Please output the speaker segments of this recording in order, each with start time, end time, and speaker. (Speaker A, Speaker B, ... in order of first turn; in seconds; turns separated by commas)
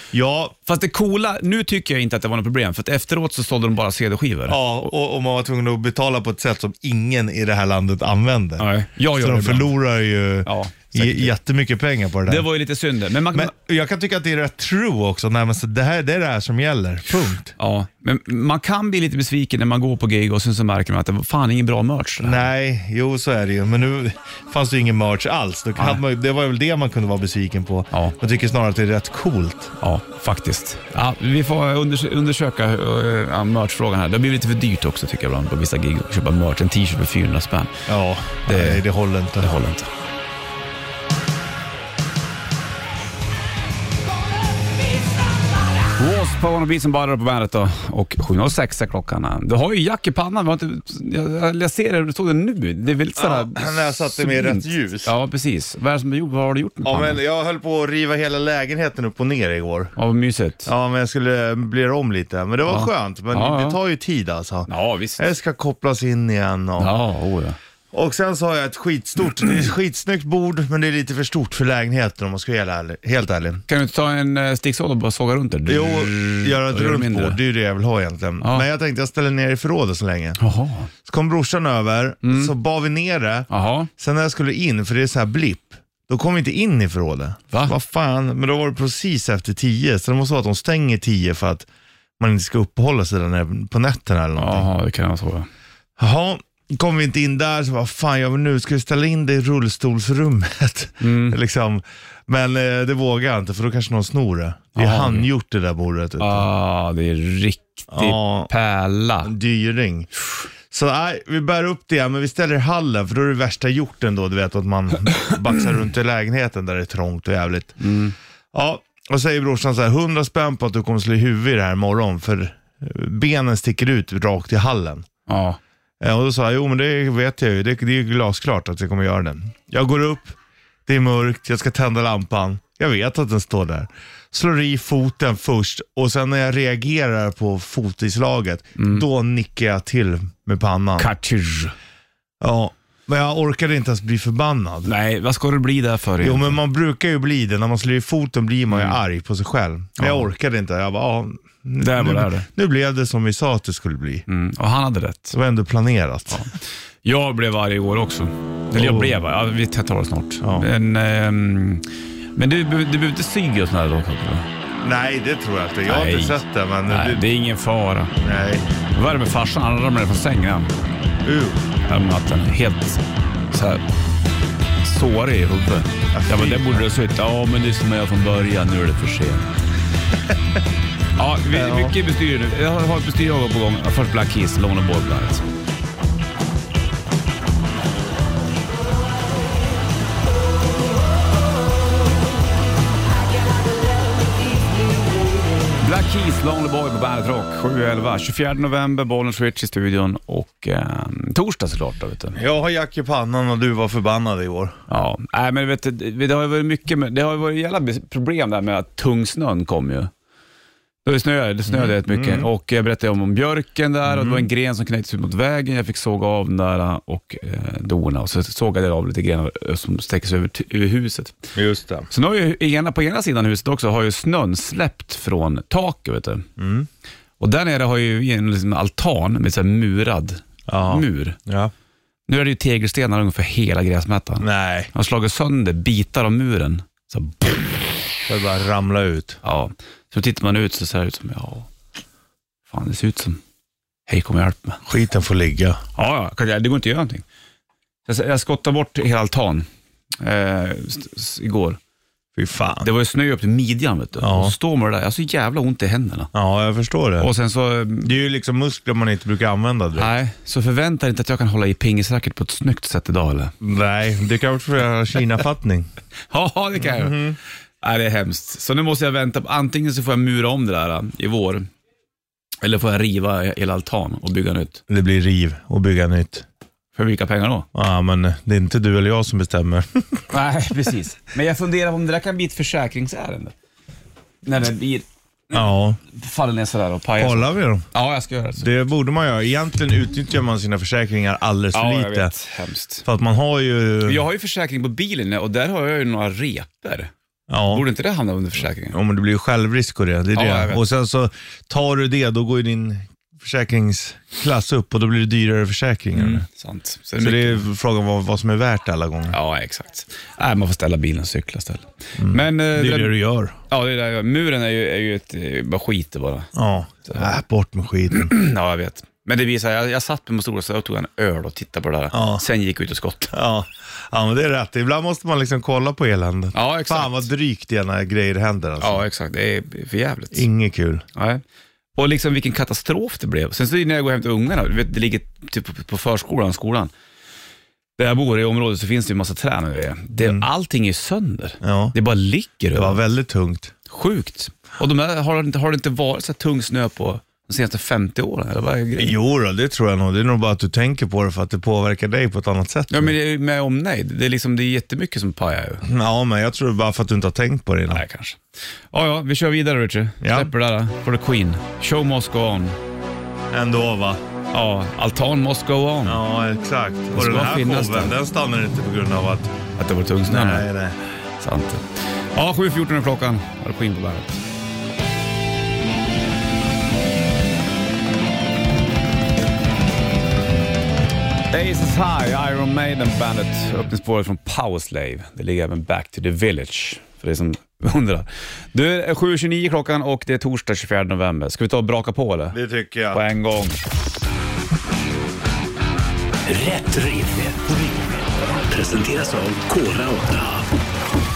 Speaker A: 0.1-0.6, Speaker B: 0.6-4.9, Speaker A: 4.5-12.4, Speaker B: 8.6-9.7, Speaker B: 10.4-11.3, Speaker B: 12.2-13.5, Speaker A: 13.3-17.5, Speaker B: 17.6-22.4, Speaker A: 22.2-29.8, Speaker B: 29.8-37.8, Speaker A: 37.9-39.5, Speaker B: 38.5-38.8, Speaker B: 39.4-39.9, Speaker B: 46.0-57.2, Speaker A: 53.2-55.1, Speaker A: 56.8-59.9, Speaker B: 60.0-60.7, Speaker A: 60.6-67.0, Speaker B: 62.6-63.8, Speaker B: 64.7-65.2, Speaker B: 66.8-67.6, Speaker A: 67.9-73.6, Speaker B: 73.7-77.4, Speaker A: 75.7-80.4, Speaker B: 80.4-80.9, Speaker A: 81.0-91.7, Speaker B: 82.2-82.5, Speaker B: 83.5-83.9, Speaker A: 92.2-94.7, Speaker B: 94.3-95.5, Speaker A: 96.0-106.5, Speaker B: 101.0-101.4, Speaker B: 104.8-105.3, Speaker B: 106.2-109.3, Speaker A: 107.9-108.5, Speaker A: 109.2-110.1, Speaker A: 110.7-117.8, Speaker B: 117.8-118.1, Speaker A: 118.5-125.1, Speaker B: 125.3-125.6, Speaker A: 126.0-141.1, Speaker B: 138.8-139.0, Speaker B: 141.0-141.7, Speaker A: 142.4-144.9, Speaker B: 144.8-146.6, Speaker A: 146.2-154.2, Speaker B: 148.7-149.0, Speaker B: 150.0-150.2, Speaker B: 151.8-152.5, Speaker B: 154.3-155.3, Speaker A: 155.3-156.5, Speaker B: 156.3-164.5, Speaker A: 158.7-159.1, Speaker A: 160.4-160.7, Speaker A: 164.8-167.2, Speaker B: 165.8-168.1, Speaker A: 168.2-168.7, Speaker B: 168.9-170.7, Speaker A: 171.2-171.6, Speaker B: 171.8-173.8, Speaker B: 174.8-179.5, Speaker A: 176.1-176.8, Speaker B: 181.2-185.4, Speaker A: 181.5-181.9, Speaker C: 194.6-194.9, Speaker B: 195.8-202.4, Speaker A: 202.3-204.8, Speaker B: 204.9-210.1, Speaker B: 211.0-221.4, Speaker A: 211.7-212.5, Speaker A: 214.1-214.5, Speaker A: 221.5-222.1, Speaker B: 222.1-226.5, Speaker A: 226.6-226.9, Speaker B: 227.4-231.4, Speaker A: 230.7-231.7, Speaker B: 232.3-237.8, Speaker A: 234.4-234.9, Speaker A: 238.3-239.4, Speaker B: 239.4-241.7, Speaker B: 242.7-243.4, Speaker B: 244.1-244.8, Speaker A: 244.8-245.8, Speaker B: 245.9-247.2, Speaker B: 248.1-249.7, Speaker B: 250.2-251.8, Speaker A: 252.3-252.9, Speaker B: 252.8-256.3, Speaker A: 254.2-254.5, Speaker A: 256.3-257.3, Speaker B: 257.2-258.1, Speaker A: 258.0-260.1, Speaker B: 260.0-263.5, Speaker A: 263.6-265.9, Speaker B: 266.3-267.2, Speaker A: 266.8-267.4, Speaker B: 267.8-271.7, Speaker B: 272.6-274.8, Speaker A: 274.9-276.4, Speaker B: 276.9-277.7, Speaker A: 277.7-280.2, Speaker B: 280.3-283.5, Speaker B: 284.4-288.7, Speaker A: 285.5-286.0, Speaker A: 287.2-287.8, Speaker A: 288.6-292.3, Speaker B: 291.7-293.0, Speaker A: 293.0-294.2, Speaker B: 294.0-297.1, Speaker A: 297.5-297.8, Speaker B: 297.7-299.0, Speaker A: 298.9-306.4, Speaker B: 300.3-300.8, Speaker B: 306.1-307.6, Speaker A: 307.2-309.4, Speaker B: 309.3-313.1, Speaker A: 312.2-313.6, Speaker B: 313.7-316.5, Speaker A: 316.5-318.3, Speaker B: 317.1-317.4, Speaker B: 318.1-323.3, Speaker A: 322.1-322.4, Speaker A: 323.3-329.0, Speaker B: 326.5-327.3, Speaker B: 328.8-330.5, Speaker A: 330.3-331.0, Speaker B: 331.1-331.4, Speaker B: 331.9-336.9, Speaker B: 338.0-343.0, Speaker A: 340.2-340.4, Speaker A: 341.6-341.9, Speaker A: 342.7-343.7, Speaker B: 343.9-349.1, Speaker A: 349.0-353.1, Speaker B: 352.9-355.8, Speaker A: 355.8-358.0, Speaker B: 357.9-358.4, Speaker B: 358.9-362.8, Speaker A: 360.2-360.5, Speaker A: 363.5-364.2, Speaker B: 364.5-366.2, Speaker A: 366.0-369.6, Speaker B: 367.1-368.1, Speaker B: 369.8-370.6, Speaker A: 370.2-371.0, Speaker B: 371.4-374.4, Speaker B: 381.5-392.6, Speaker A: 392.5-393.2, Speaker B: 393.1-393.8, Speaker C: 396.4-400.7